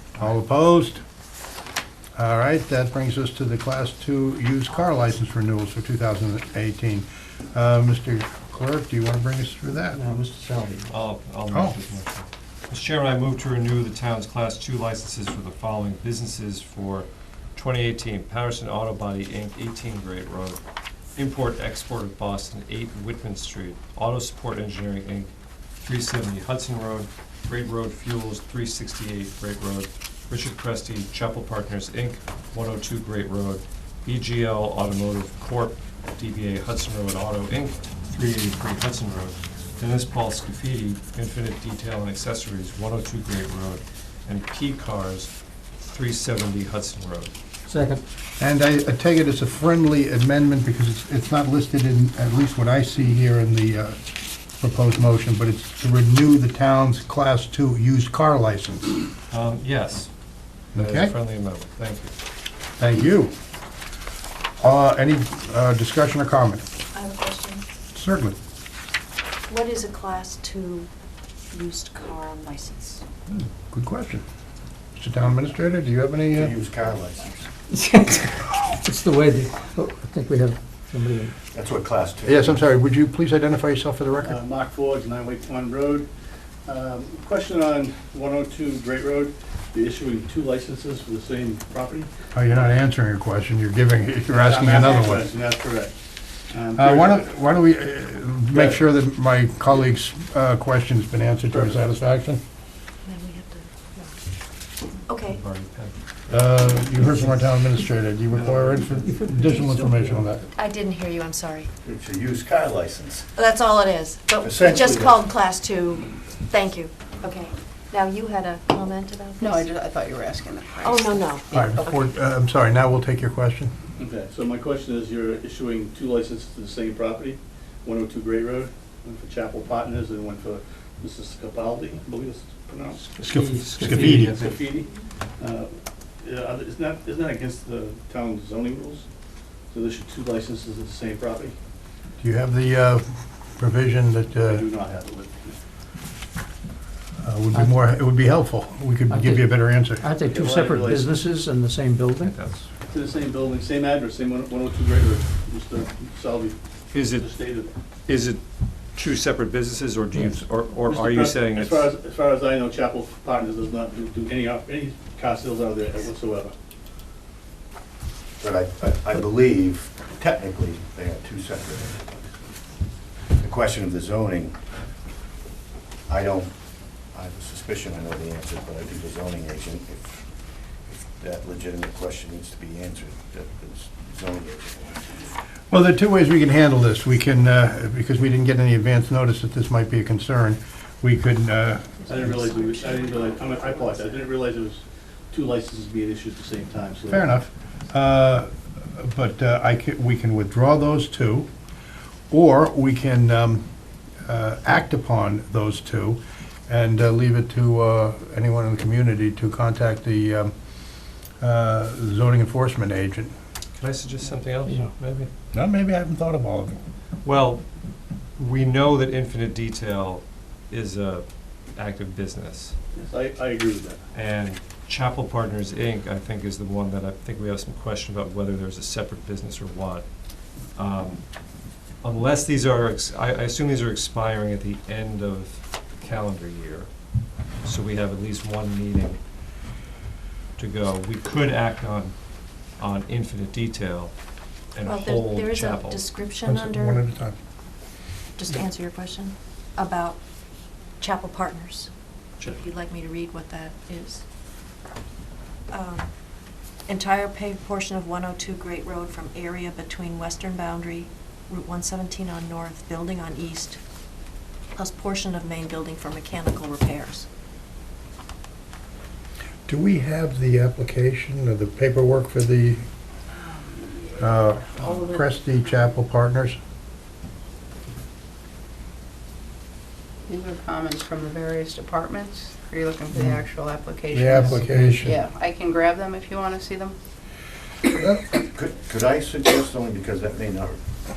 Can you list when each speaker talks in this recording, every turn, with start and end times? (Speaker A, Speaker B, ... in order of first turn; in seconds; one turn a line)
Speaker A: 0.2-1.0
Speaker A: 2.1-10.0
Speaker B: 9.9-11.0
Speaker C: 10.9-20.6
Speaker A: 11.5-11.8
Speaker C: 21.2-45.3
Speaker C: 45.8-47.3
Speaker B: 47.7-48.0
Speaker A: 48.4-54.0
Speaker A: 54.6-59.0
Speaker C: 59.3-60.1
Speaker C: 60.7-62.1
Speaker A: 60.8-61.1
Speaker A: 62.8-63.3
Speaker A: 64.6-66.7
Speaker D: 66.9-67.6
Speaker A: 67.9-68.4
Speaker D: 69.5-70.9
Speaker D: 71.5-73.0
Speaker A: 73.3-74.2
Speaker A: 75.0-76.5
Speaker E: 76.3-77.5
Speaker B: 77.7-81.3
Speaker E: 81.5-82.6
Speaker A: 82.2-84.4
Speaker F: 84.2-86.1
Speaker F: 86.7-92.1
Speaker A: 92.3-95.3
Speaker F: 94.3-96.0
Speaker F: 96.5-97.2
Speaker A: 96.8-102.4
Speaker F: 98.5-98.8
Speaker F: 101.5-101.8
Speaker D: 103.1-104.2
Speaker D: 105.1-105.4
Speaker C: 105.3-106.0
Speaker A: 106.3-110.5
Speaker B: 107.0-107.3
Speaker B: 109.0-110.2
Speaker D: 110.6-111.7
Speaker E: 111.8-113.3
Speaker D: 113.4-119.7
Speaker E: 114.4-115.2
Speaker G: 119.4-122.0
Speaker D: 120.8-121.6
Speaker A: 121.5-123.7
Speaker F: 124.0-133.0
Speaker B: 133.2-134.6
Speaker A: 133.2-134.4
Speaker C: 133.7-134.3
Speaker F: 134.3-134.9
Speaker F: 135.4-139.1
Speaker F: 139.7-141.6
Speaker A: 142.2-144.7
Speaker F: 144.5-145.6
Speaker A: 147.2-150.1
Speaker B: 149.1-152.4
Speaker F: 150.3-151.0
Speaker C: 152.2-152.6
Speaker F: 152.9-156.6
Speaker C: 156.9-157.3
Speaker F: 157.2-157.7
Speaker C: 158.1-158.4
Speaker C: 158.9-161.9
Speaker F: 160.9-166.5
Speaker E: 168.4-172.3
Speaker E: 173.4-174.6
Speaker E: 176.1-176.5
Speaker E: 177.1-180.3
Speaker E: 180.9-185.4
Speaker A: 185.7-192.4
Speaker D: 192.0-194.3
Speaker F: 192.1-197.3
Speaker A: 197.1-201.5
Speaker A: 202.3-203.6
Speaker A: 204.3-210.5
Speaker A: 211.4-213.3
Speaker C: 213.8-215.3
Speaker A: 215.5-216.8
Speaker C: 217.2-217.6
Speaker C: 218.4-222.8
Speaker F: 223.0-224.0
Speaker C: 224.1-230.1
Speaker C: 230.8-231.2
Speaker C: 232.0-236.9
Speaker C: 237.6-239.2
Speaker C: 240.6-242.1
Speaker C: 242.8-244.1
Speaker C: 244.8-246.1
Speaker D: 244.8-247.0
Speaker A: 246.5-247.4
Speaker D: 248.4-250.2
Speaker D: 251.0-251.9
Speaker D: 252.5-254.2
Speaker D: 255.7-256.1
Speaker D: 256.9-263.8
Speaker D: 264.8-267.3
Speaker A: 269.7-272.9
Speaker A: 274.2-276.6
Speaker G: 280.3-287.0
Speaker A: 284.1-285.2
Speaker B: 284.6-285.1
Speaker A: 288.0-288.3
Speaker E: 288.4-290.8